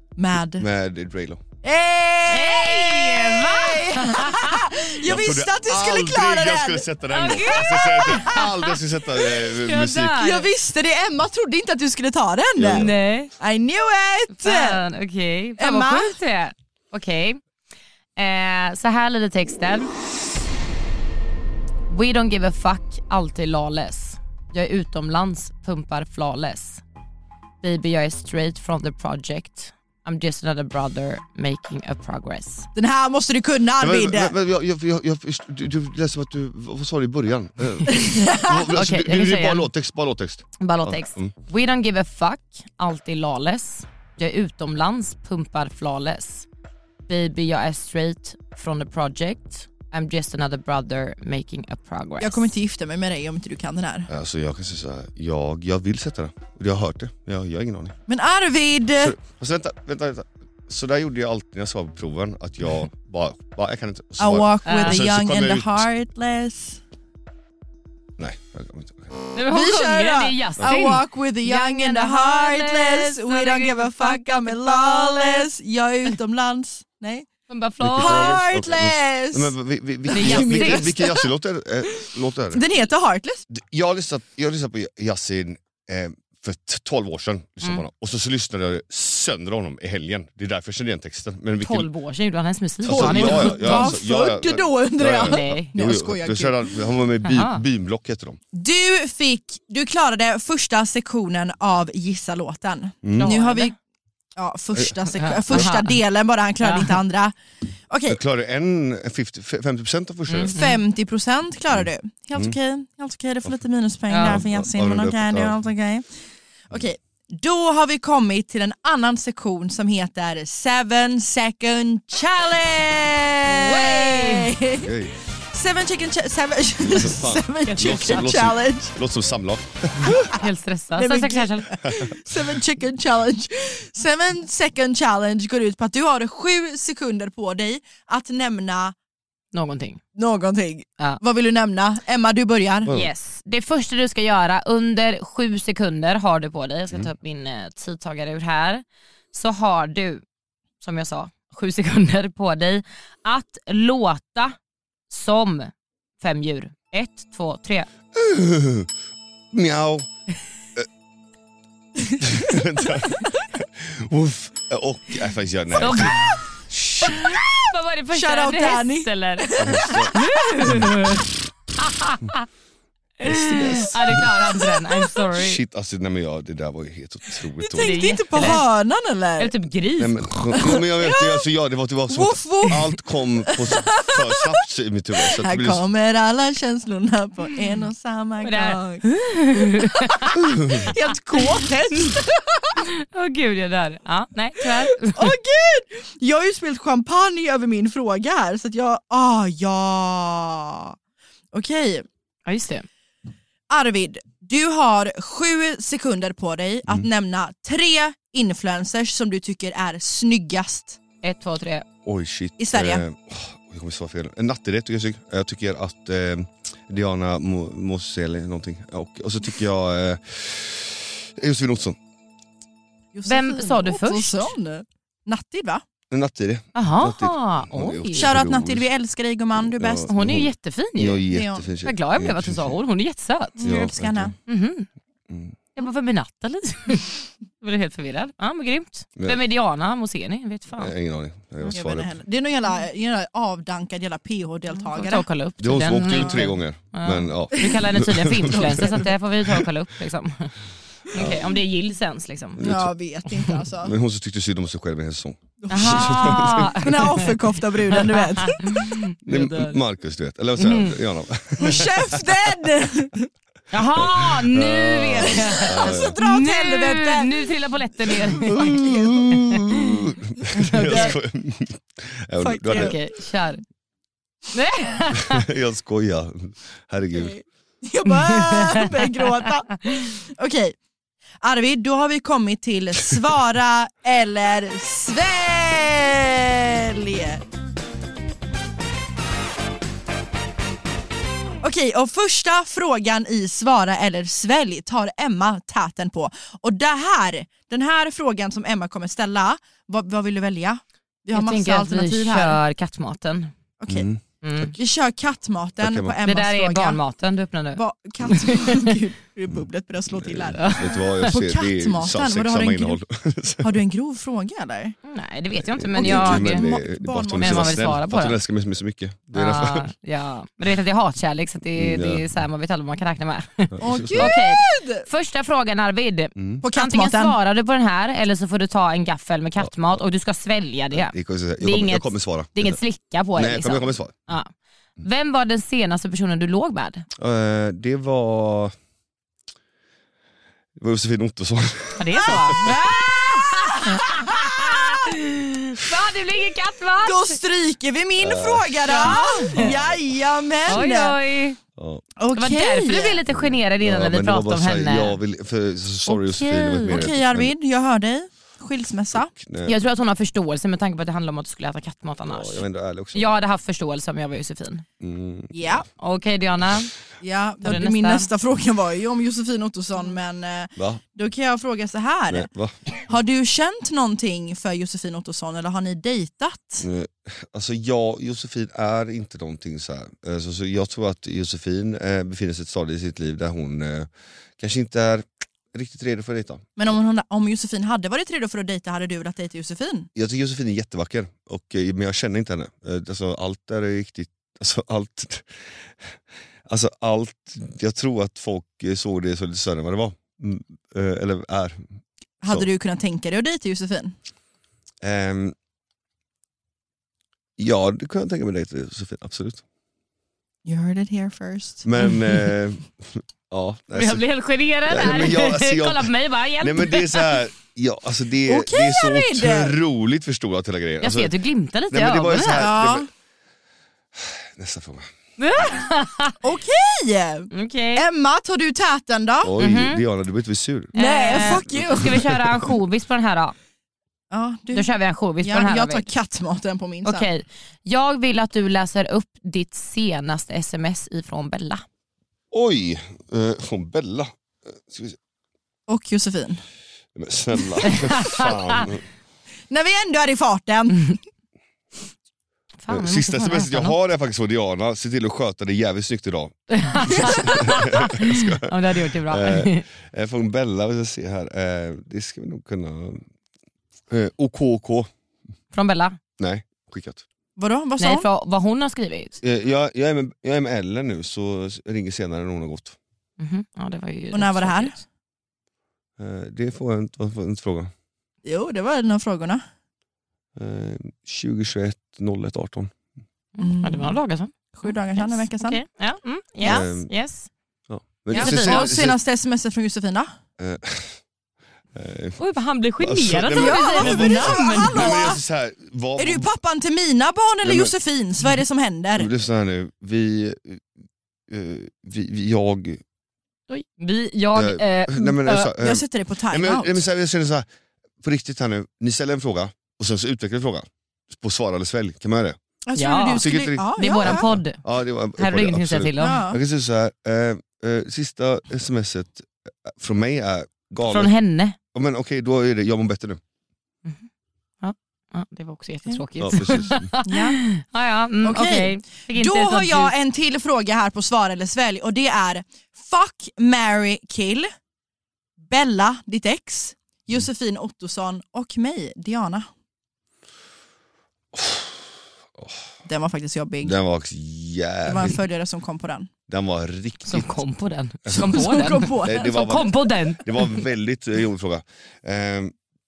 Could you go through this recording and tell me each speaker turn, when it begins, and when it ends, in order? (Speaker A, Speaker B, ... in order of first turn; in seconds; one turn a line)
Speaker A: 0.2-0.7
Speaker B: 0.6-1.4
Speaker A: 1.6-8.5
Speaker C: 2.3-4.7
Speaker B: 5.0-10.2
Speaker C: 7.1-8.7
Speaker C: 9.5-10.5
Speaker A: 10.1-14.8
Speaker B: 12.6-12.9
Speaker C: 12.7-13.3
Speaker C: 14.3-17.4
Speaker A: 15.6-16.2
Speaker C: 18.2-19.9
Speaker C: 21.9-26.8
Speaker C: 27.6-32.7
Speaker A: 32.7-34.3
Speaker B: 33.8-41.3
Speaker A: 37.9-38.7
Speaker C: 38.7-39.7
Speaker C: 40.6-46.5
Speaker C: 47.1-52.5
Speaker A: 52.2-54.1
Speaker B: 54.1-58.0
Speaker A: 58.1-59.2
Speaker B: 59.0-65.8
Speaker A: 64.2-66.8
Speaker C: 64.6-65.0
Speaker B: 68.2-69.1
Speaker C: 69.3-75.5
Speaker A: 69.5-77.3
Speaker C: 77.5-78.4
Speaker B: 77.8-82.6
Speaker A: 77.9-79.5
Speaker A: 80.1-81.3
Speaker C: 80.1-81.0
Speaker A: 82.0-83.4
Speaker B: 83.5-91.9
Speaker C: 91.6-93.9
Speaker B: 92.8-98.4
Speaker A: 92.8-96.7
Speaker C: 95.0-95.7
Speaker C: 97.2-97.6
Speaker A: 98.5-103.7
Speaker B: 103.0-103.4
Speaker C: 103.1-103.7
Speaker A: 104.4-107.3
Speaker C: 105.2-106.0
Speaker C: 106.6-107.0
Speaker A: 107.9-108.2
Speaker B: 108.1-110.5
Speaker C: 110.3-110.8
Speaker A: 110.5-116.0
Speaker B: 111.7-112.5
Speaker C: 114.1-114.4
Speaker B: 114.2-115.6
Speaker A: 116.7-124.9
Speaker C: 123.5-124.5
Speaker B: 124.8-125.2
Speaker A: 125.5-128.9
Speaker B: 126.8-130.3
Speaker C: 127.7-128.3
Speaker C: 130.0-131.8
Speaker A: 130.9-138.9
Speaker C: 139.5-140.0
Speaker A: 140.1-142.9
Speaker B: 142.8-143.1
Speaker C: 142.9-150.2
Speaker C: 150.8-154.6
Speaker C: 155.1-157.9
Speaker B: 158.1-158.9
Speaker B: 159.5-160.1
Speaker A: 162.1-163.1
Speaker B: 162.2-166.2
Speaker C: 165.7-166.4
Speaker A: 166.1-166.3
Speaker A: 166.9-170.8
Speaker C: 167.0-172.4
Speaker B: 169.6-170.1
Speaker C: 173.2-175.6
Speaker B: 173.2-174.3
Speaker A: 173.2-174.0
Speaker A: 174.6-175.1
Speaker B: 175.3-178.6
Speaker A: 177.6-179.5
Speaker C: 177.8-178.7
Speaker C: 179.4-180.3
Speaker B: 180.0-185.8
Speaker A: 180.6-181.4
Speaker A: 182.1-182.9
Speaker A: 183.4-184.5
Speaker A: 185.2-189.1
Speaker C: 188.4-190.4
Speaker A: 189.8-192.8
Speaker B: 190.5-190.9
Speaker C: 192.8-195.3
Speaker A: 195.0-200.9
Speaker A: 201.5-202.1
Speaker C: 202.4-202.8
Speaker A: 203.7-211.0
Speaker C: 211.2-211.8
Speaker B: 212.0-222.0
Speaker A: 212.6-213.0
Speaker A: 223.1-225.8
Speaker C: 223.3-224.5
Speaker B: 226.1-228.9
Speaker C: 226.7-228.3
Speaker A: 228.2-230.1
Speaker B: 229.7-232.8
Speaker C: 230.1-231.2
Speaker A: 231.3-231.7
Speaker C: 231.8-233.7
Speaker A: 233.6-234.3
Speaker B: 233.6-234.3
Speaker C: 234.5-234.9
Speaker B: 235.3-235.6
Speaker C: 235.7-240.9
Speaker B: 240.7-242.1
Speaker A: 241.7-245.2
Speaker C: 244.8-250.6
Speaker B: 245.6-249.7
Speaker A: 248.6-249.0
Speaker C: 251.1-252.6
Speaker B: 251.1-251.5
Speaker B: 252.6-252.9
Speaker A: 252.6-253.9
Speaker B: 253.8-257.1
Speaker A: 255.6-258.8
Speaker C: 255.7-257.3
Speaker C: 257.9-259.8
Speaker B: 259.2-262.3
Speaker C: 260.6-261.0
Speaker A: 261.6-263.3
Speaker C: 263.7-268.7
Speaker B: 263.8-266.1
Speaker A: 265.2-267.3
Speaker A: 268.1-269.3
Speaker B: 268.4-272.9
Speaker C: 269.3-269.6
Speaker C: 270.5-271.1
Speaker A: 270.8-271.1
Speaker A: 272.4-273.0
Speaker C: 272.7-273.6
Speaker C: 274.5-275.4
Speaker B: 275.2-277.3
Speaker A: 277.1-280.8
Speaker C: 278.1-279.5
Speaker A: 281.4-287.4
Speaker A: 291.6-302.6
Speaker C: 301.3-303.5
Speaker A: 303.8-304.1
Speaker B: 303.9-304.7
Speaker C: 304.4-304.7
Speaker A: 304.7-307.0
Speaker B: 305.8-306.1
Speaker C: 306.2-308.9
Speaker A: 307.7-313.0
Speaker B: 310.2-313.8
Speaker C: 310.5-311.4
Speaker A: 313.6-315.0
Speaker C: 315.0-316.7
Speaker B: 315.6-319.9
Speaker A: 315.9-318.0
Speaker C: 317.4-318.4
Speaker C: 319.3-337.1
Speaker B: 321.7-322.2
Speaker B: 323.8-324.3
Speaker A: 323.8-325.1
Speaker B: 326.4-326.6
Speaker A: 326.6-327.4
Speaker B: 330.9-332.8
Speaker B: 333.3-334.1
Speaker B: 337.2-338.7
Speaker B: 340.8-342.8
Speaker C: 342.0-347.4
Speaker A: 343.9-344.7
Speaker A: 347.0-351.1
Speaker B: 348.2-350.2
Speaker C: 348.9-349.7
Speaker C: 350.7-351.6
Speaker B: 351.8-352.0
Speaker A: 352.2-353.2
Speaker C: 352.3-355.2
Speaker B: 353.3-357.5
Speaker C: 356.1-357.1
Speaker A: 356.9-359.3
Speaker B: 359.3-359.8
Speaker C: 359.6-364.8
Speaker B: 362.2-363.3
Speaker B: 365.0-365.8
Speaker A: 365.5-365.9
Speaker C: 365.9-366.9
Speaker A: 367.2-376.9
Speaker C: 367.6-368.3
Speaker B: 372.3-372.8
Speaker B: 376.8-386.7
Speaker A: 386.8-390.1
Speaker B: 390.1-395.5
Speaker B: 396.7-401.8
Speaker A: 402.4-404.1
Speaker B: 405.0-405.5
Speaker B: 407.6-409.6
Speaker A: 410.6-411.8
Speaker B: 411.8-414.2
Speaker C: 413.9-417.4
Speaker B: 414.9-421.3
Speaker A: 418.5-419.8
Speaker C: 421.0-422.7
Speaker B: 421.9-423.1
Speaker A: 422.6-423.1
Speaker B: 424.1-425.1
Speaker C: 425.4-426.4
Speaker A: 426.4-429.5
Speaker C: 427.5-428.0
Speaker B: 429.4-432.6
Speaker C: 429.6-430.0
Speaker C: 430.9-433.5
Speaker A: 430.9-432.2
Speaker A: 434.3-434.9
Speaker C: 434.7-436.1
Speaker A: 435.4-437.3
Speaker C: 437.0-441.8
Speaker B: 442.5-445.2
Speaker A: 445.9-446.6
Speaker B: 447.1-449.0
Speaker C: 447.9-448.8
Speaker A: 449.7-451.2
Speaker C: 452.8-453.9
Speaker B: 452.9-463.2
Speaker C: 456.7-459.8
Speaker B: 464.1-465.1
Speaker C: 465.7-466.2
Speaker B: 466.4-467.2
Speaker A: 467.6-468.2
Speaker C: 468.0-469.4
Speaker B: 469.4-472.9
Speaker C: 473.4-474.9
Speaker A: 474.3-475.0
Speaker B: 476.2-477.9
Speaker A: 478.4-479.6
Speaker B: 480.6-482.9
Speaker C: 483.6-487.5
Speaker A: 483.6-484.2
Speaker A: 484.7-485.8
Speaker B: 486.6-487.1
Speaker B: 487.9-489.2
Speaker C: 488.3-488.9
Speaker A: 488.3-490.3
Speaker B: 490.6-491.2
Speaker B: 491.9-492.4
Speaker C: 492.4-495.2
Speaker B: 493.0-496.5
Speaker A: 493.5-495.4
Speaker A: 496.2-499.3
Speaker B: 497.6-497.9
Speaker B: 499.2-500.9
Speaker B: 501.5-503.0
Speaker C: 503.7-505.7
Speaker B: 504.5-507.6
Speaker A: 505.8-507.0
Speaker B: 508.2-512.6
Speaker A: 512.9-514.5
Speaker C: 513.0-514.8
Speaker B: 513.4-521.3
Speaker C: 515.4-516.5
Speaker A: 516.2-516.6
Speaker C: 521.0-521.8
Speaker B: 521.9-523.4
Speaker C: 524.8-530.1
Speaker B: 526.4-527.1
Speaker A: 527.2-527.6
Speaker A: 528.4-534.7
Speaker A: 535.6-539.7
Speaker B: 541.5-542.0
Speaker B: 542.5-542.8
Speaker A: 543.0-544.0
Speaker B: 543.8-545.4
Speaker A: 545.0-546.3
Speaker B: 546.5-547.6
Speaker C: 547.3-550.8
Speaker B: 548.2-548.6
Speaker A: 548.3-549.9
Speaker B: 549.2-552.7